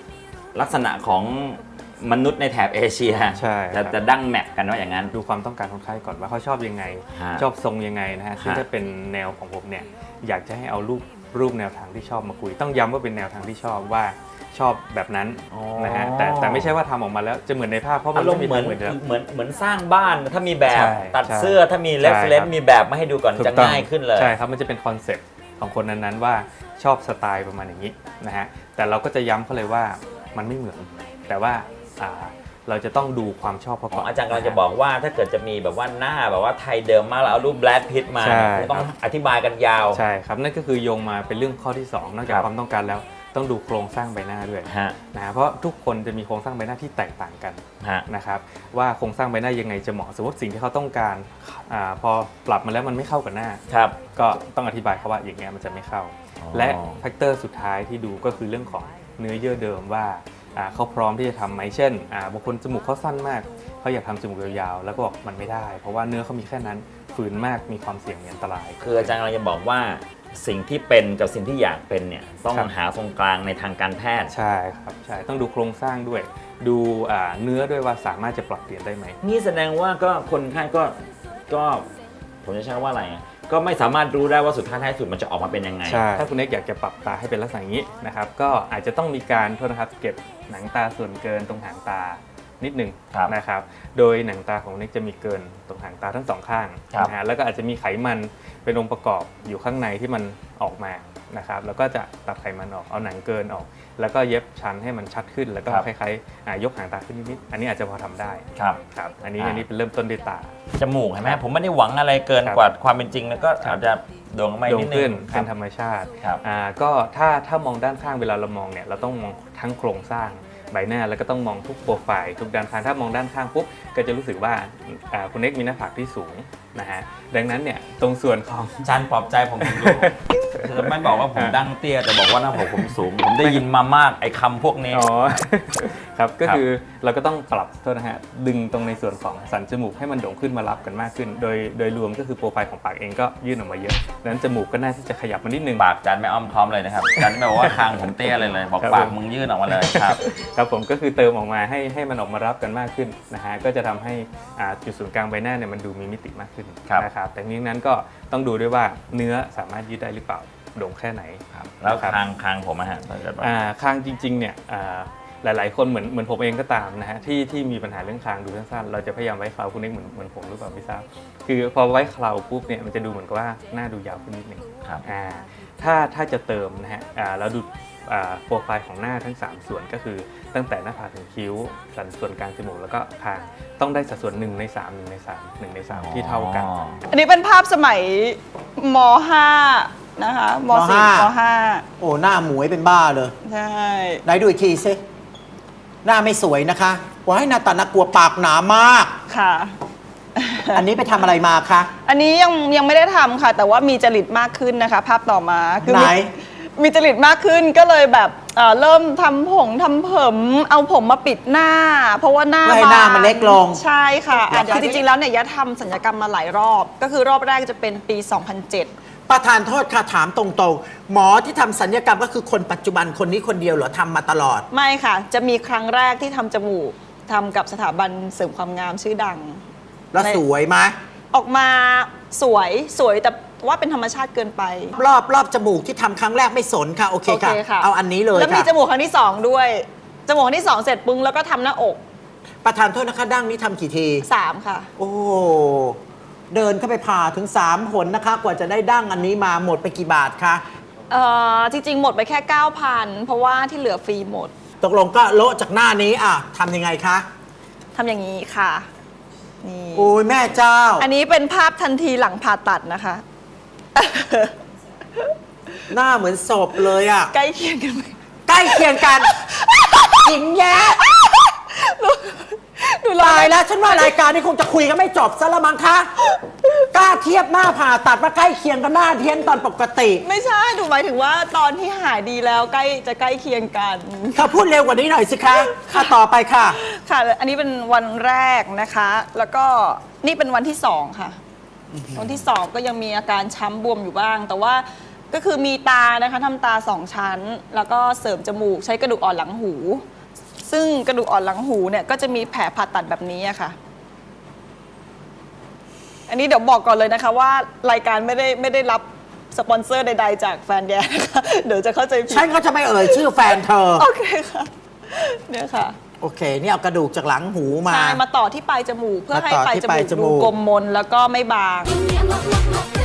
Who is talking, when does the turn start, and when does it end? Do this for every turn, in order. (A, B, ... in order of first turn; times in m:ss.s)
0:00.5-0:05.1 A
0:03.3-0:04.0 B
0:05.1-0:19.0 B
0:07.1-0:07.4 A
0:08.4-0:08.6 A
0:15.5-0:16.7 A
0:18.1-0:24.4 A
0:20.7-0:22.5 B
0:23.3-0:34.6 B
0:33.9-0:40.0 A
0:38.2-0:38.9 B
0:39.9-0:53.6 B
0:44.6-0:45.0 A
0:53.7-0:54.0 A
0:54.1-1:09.1 B
0:56.4-0:57.0 A
1:08.8-1:14.3 A
1:14.3-1:19.2 B
1:19.2-1:21.0 A
1:21.5-1:21.9 A
1:22.4-1:26.1 A
1:25.8-1:50.5 B
1:48.6-1:48.8 A
1:49.4-1:49.6 A
1:50.8-1:55.5 A
1:54.6-2:08.8 B
2:08.8-2:15.1 A
2:09.7-2:11.6 B
2:14.9-2:25.8 B
2:25.8-2:30.2 A
2:27.2-2:27.7 B
2:28.8-2:29.2 B
2:29.7-2:42.2 B
2:41.5-2:43.5 A
2:43.4-3:06.7 B
3:05.9-3:07.0 A
3:07.1-3:11.8 C
3:10.7-3:11.3 D
3:12.0-3:13.3 D
3:13.4-3:14.2 C
3:14.2-3:15.0 D
3:16.0-3:19.1 D
3:19.3-3:19.8 C
3:20.4-3:20.8 C
3:20.7-3:21.9 D
3:22.0-3:26.2 C
3:25.8-3:26.3 D
3:26.8-3:38.9 C
3:32.6-3:33.8 D
3:34.4-3:35.0 D
3:39.3-3:44.6 D
3:44.7-3:49.6 C
3:50.1-3:51.0 D
3:51.3-3:54.9 C
3:54.9-3:58.7 D
3:57.3-4:02.0 C
4:02.6-4:04.2 D
4:04.2-4:04.9 C
4:05.0-4:06.0 D
4:06.5-4:10.6 D
4:11.1-4:14.5 C
4:14.8-4:17.2 D
4:17.9-4:18.9 C
4:19.6-4:20.2 C
4:19.9-4:21.1 D
4:21.0-4:23.2 C
4:23.9-4:24.6 C
4:25.9-4:27.3 D
4:27.3-4:28.2 C
4:28.5-4:29.3 D
4:28.7-4:30.3 C
4:30.2-4:31.0 D
4:31.0-4:34.0 C
4:33.2-4:36.1 D
4:36.9-4:40.2 D
4:40.2-4:44.6 C
4:44.3-4:46.8 D
4:45.6-4:46.1 C
4:46.7-4:51.4 C
4:51.9-4:52.3 D
4:52.2-5:00.0 C
5:00.6-5:03.8 C
5:06.3-5:12.5 C
5:12.3-5:14.0 D
5:14.0-5:16.0 C
5:16.2-5:18.2 D
5:17.9-5:22.0 C
5:19.3-5:20.5 D